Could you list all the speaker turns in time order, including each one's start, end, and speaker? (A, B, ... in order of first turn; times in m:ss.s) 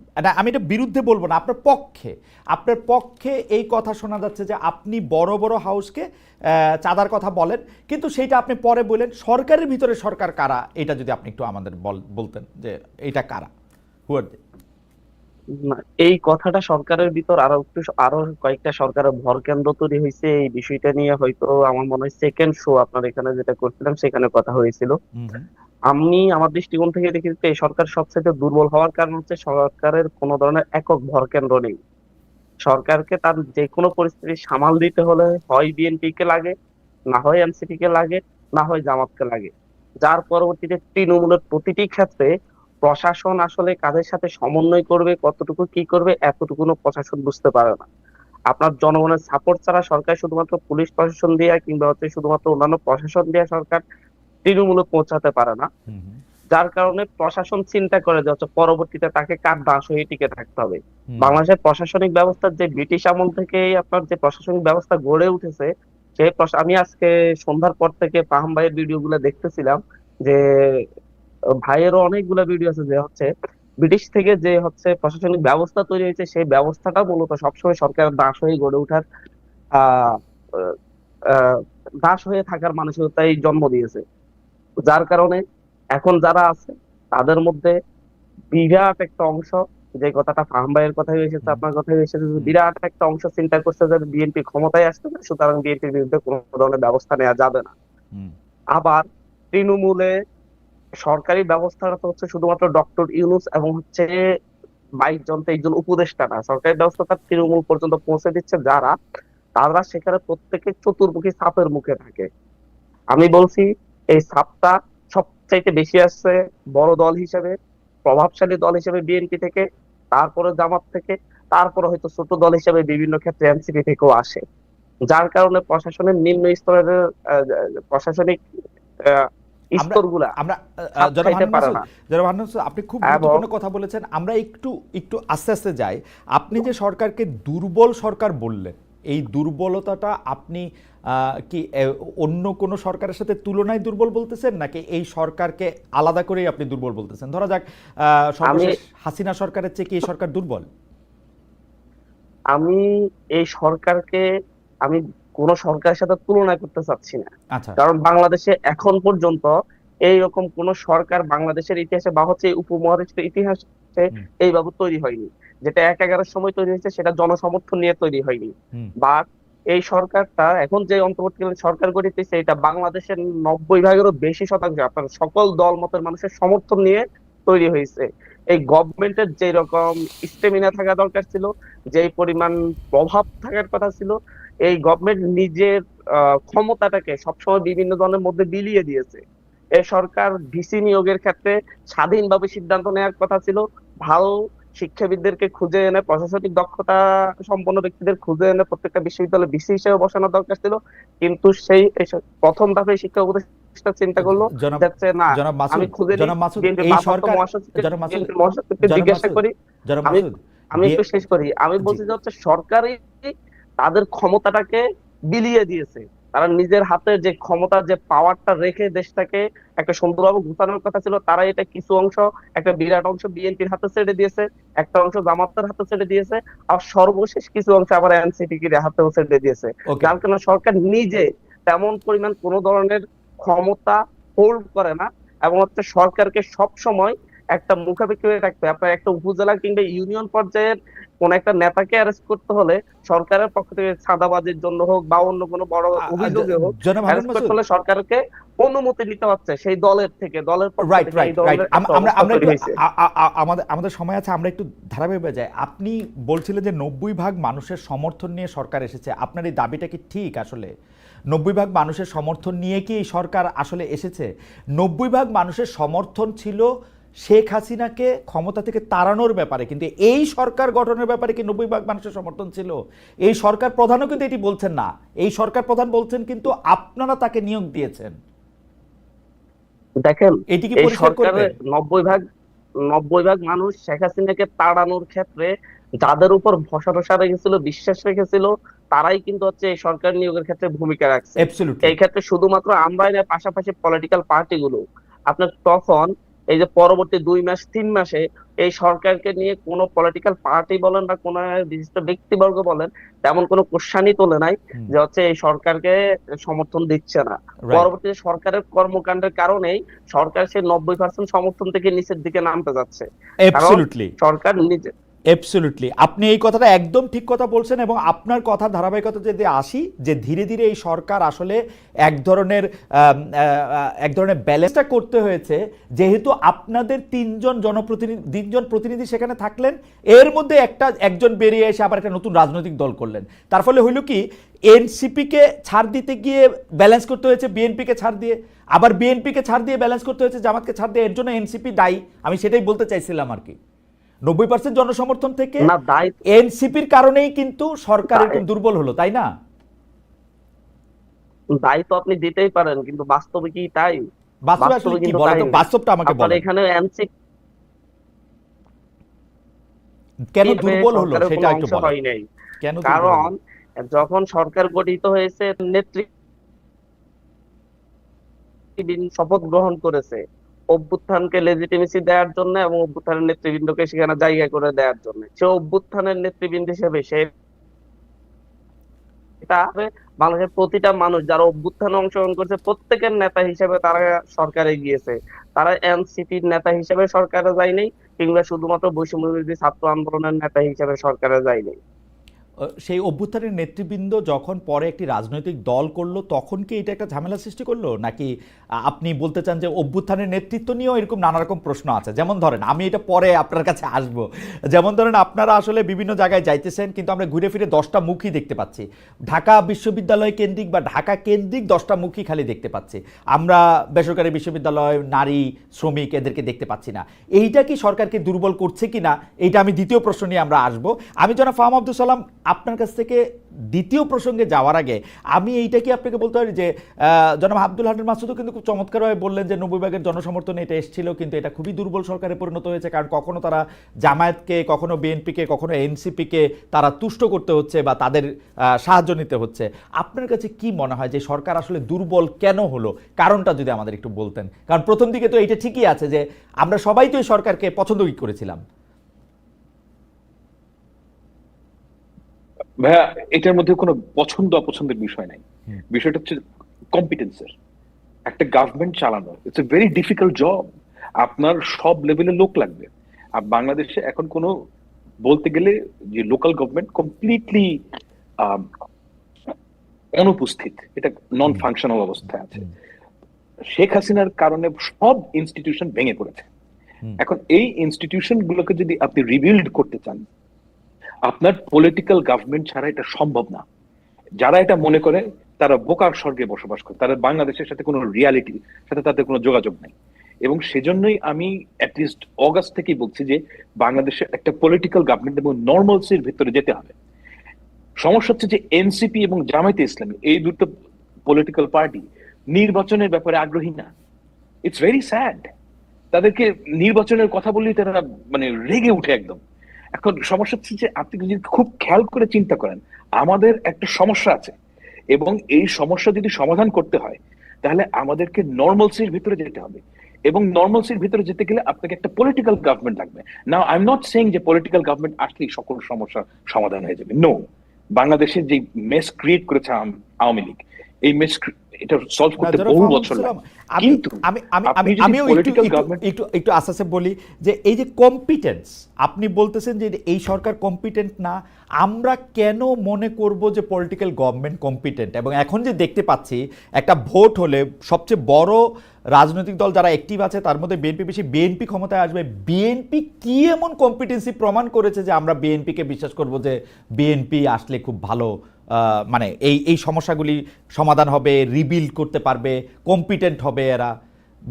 0:00.2-0:06.0 A
0:06.8-0:13.5 A
0:14.1-0:14.4 A
0:15.6-0:24.9 B
0:25.1-0:25.5 A
0:25.9-0:31.8 B
0:32.6-0:36.5 B
0:37.1-0:39.5 B
0:40.0-0:42.3 B
0:42.8-0:47.9 B
0:48.5-0:53.8 B
0:54.4-0:55.7 B
0:55.9-0:56.2 A
0:56.5-1:10.4 B
1:01.1-1:01.4 A
1:11.6-1:13.3 B
1:13.8-1:19.0 B
1:19.8-1:20.7 B
1:21.3-1:24.0 B
1:24.9-1:25.4 B
1:26.0-1:27.7 B
1:28.5-1:37.7 B
1:38.8-1:40.1 B
1:41.0-1:44.1 B
1:45.0-1:48.9 B
1:49.6-1:52.3 B
1:53.1-1:57.5 B
1:58.0-2:04.4 B
2:05.1-2:09.2 B
2:09.7-2:10.3 B
2:09.8-2:30.7 A
2:11.0-2:11.8 B
2:13.1-2:13.4 B
2:28.4-2:28.7 B
2:32.5-2:32.8 B
2:33.4-2:34.2 B
2:34.8-2:39.5 B
2:40.1-3:04.1 B
3:04.7-3:09.2 B
3:09.8-3:29.5 B
3:24.2-3:28.3 A
3:28.8-3:31.0 A
3:30.1-4:12.8 B
3:49.9-3:50.2 A
4:06.1-4:07.5 A
4:10.8-4:20.7 A
4:21.3-4:26.6 A
4:27.2-4:32.8 A
4:33.3-4:38.1 A
4:40.0-4:42.2 B
4:40.5-4:41.5 A
4:42.9-4:45.5 B
4:46.0-5:14.9 B
4:51.4-4:52.0 A
5:13.5-5:14.1 A
5:15.3-5:43.6 A
5:44.3-5:45.6 A
5:45.6-5:46.2 B
5:46.3-5:49.3 A
5:48.1-5:48.4 B
5:51.6-5:54.0 B
5:54.5-5:56.4 A
5:54.6-5:57.1 B
6:00.3-6:01.9 A
6:00.4-6:02.2 B
6:02.6-6:03.3 A
6:02.8-6:06.1 B
6:08.8-6:10.2 B
6:10.7-6:17.2 B
6:19.4-6:31.8 B
6:32.8-6:38.3 A
6:38.9-7:03.2 A
7:03.7-7:06.7 A
7:07.4-7:18.2 A
7:18.8-7:28.6 A
7:32.8-7:36.4 C
7:36.9-7:37.5 C
7:38.3-7:44.5 C
7:45.2-7:47.8 C
7:48.4-7:48.7 C
7:50.2-7:52.6 C
7:53.7-7:56.5 C
7:57.2-8:00.2 C
8:01.3-8:03.6 C
8:04.4-8:09.9 C
8:10.4-8:16.9 C
8:18.0-8:20.7 C
8:21.3-8:23.9 C
8:24.6-8:25.5 C
8:26.1-8:29.4 C
8:30.0-8:34.5 C
8:35.1-8:47.4 C
8:48.0-8:56.0 C
8:52.4-9:08.6 A
9:09.2-9:23.9 A